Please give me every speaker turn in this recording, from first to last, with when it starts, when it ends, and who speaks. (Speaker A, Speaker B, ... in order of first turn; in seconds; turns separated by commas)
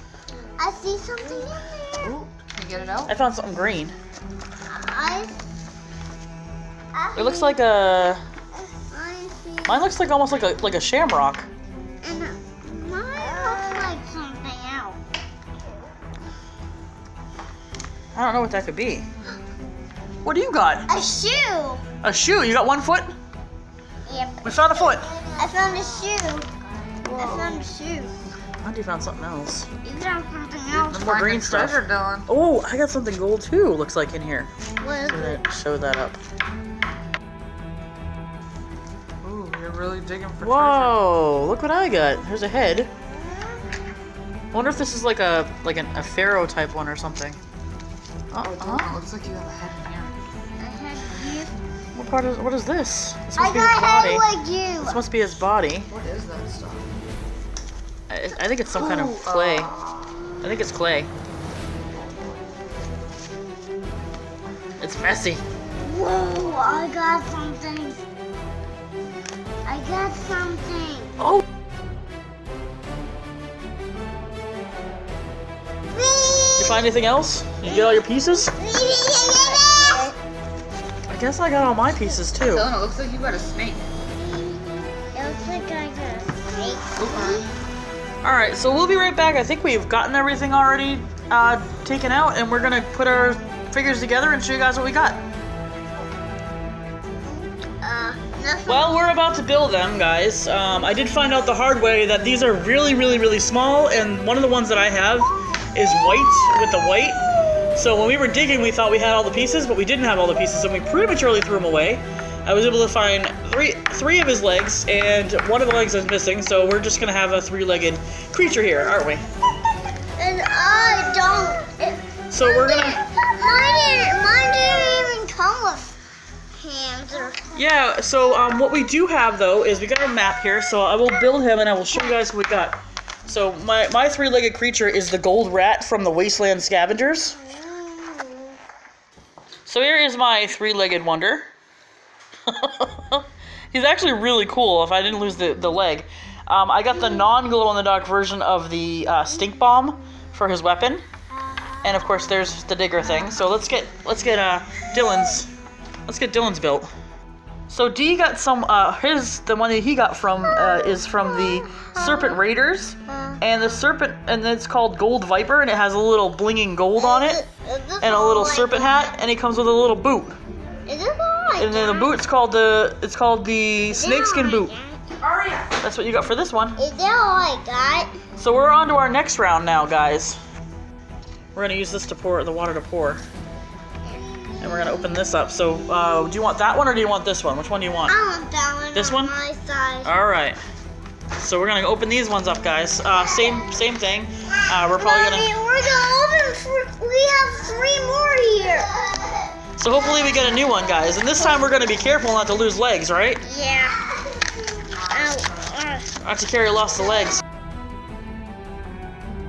Speaker A: 0.6-2.2, Speaker B: 2.0-3.1, Speaker C: 3.1-3.9, Speaker A: 4.7-5.3, Speaker A: 6.9-7.6, Speaker C: 7.2-8.2, Speaker A: 8.8-9.8, Speaker C: 9.7-11.5, Speaker A: 12.0-15.0, Speaker C: 18.1-19.1, Speaker C: 20.2-20.9, Speaker A: 20.9-21.8, Speaker C: 22.0-23.1, Speaker A: 24.1-26.5, Speaker C: 24.4-25.1, Speaker B: 27.0-27.7, Speaker A: 27.1-28.1, Speaker C: 28.6-29.7, Speaker A: 29.8-31.0, Speaker C: 30.7-34.5, Speaker B: 30.9-32.3, Speaker A: 34.8-35.4, Speaker C: 35.0-36.2, Speaker B: 39.2-41.0, Speaker C: 40.4-42.9, Speaker C: 44.5-47.4, Speaker C: 48.3-49.0, Speaker B: 48.4-50.1, Speaker A: 50.6-51.5, Speaker C: 51.9-54.2, Speaker A: 53.3-55.0, Speaker C: 54.8-55.9, Speaker B: 55.9-56.9, Speaker C: 58.1-59.7, Speaker B: 58.7-59.9, Speaker A: 59.8-60.2, Speaker C: 60.4-61.1, Speaker C: 64.8-65.4, Speaker A: 65.8-68.0, Speaker A: 69.6-71.2, Speaker A: 75.9-76.9, Speaker C: 76.6-78.5, Speaker A: 77.6-80.2, Speaker C: 81.1-82.7, Speaker B: 82.4-83.9, Speaker A: 85.0-87.5, Speaker B: 87.0-87.5, Speaker C: 88.2-95.2, Speaker A: 97.7-99.0, Speaker C: 98.7-107.2, Speaker C: 107.8-119.2, Speaker A: 120.2-125.9, Speaker C: 122.3-123.0, Speaker A: 126.6-127.6, Speaker C: 127.5-137.4, Speaker A: 137.4-138.6, Speaker C: 139.7-141.5, Speaker C: 142.5-151.0, Speaker C: 151.8-155.5, Speaker C: 156.1-156.9, Speaker C: 157.7-167.4, Speaker A: 160.6-162.4, Speaker A: 163.1-163.4, Speaker A: 166.9-168.9, Speaker C: 168.0-170.4, Speaker A: 170.8-172.2, Speaker C: 171.6-174.7, Speaker A: 173.9-175.0, Speaker C: 175.8-176.8, Speaker A: 176.8-178.1, Speaker C: 178.4-180.4, Speaker C: 181.5-183.2, Speaker A: 184.0-185.0, Speaker C: 184.6-188.2, Speaker A: 188.1-190.1, Speaker C: 188.9-189.3, Speaker C: 190.0-190.6, Speaker C: 191.4-195.5, Speaker A: 193.2-193.6, Speaker A: 194.8-199.4, Speaker C: 199.8-203.4, Speaker A: 203.4-204.4, Speaker A: 204.9-206.1, Speaker C: 206.2-207.4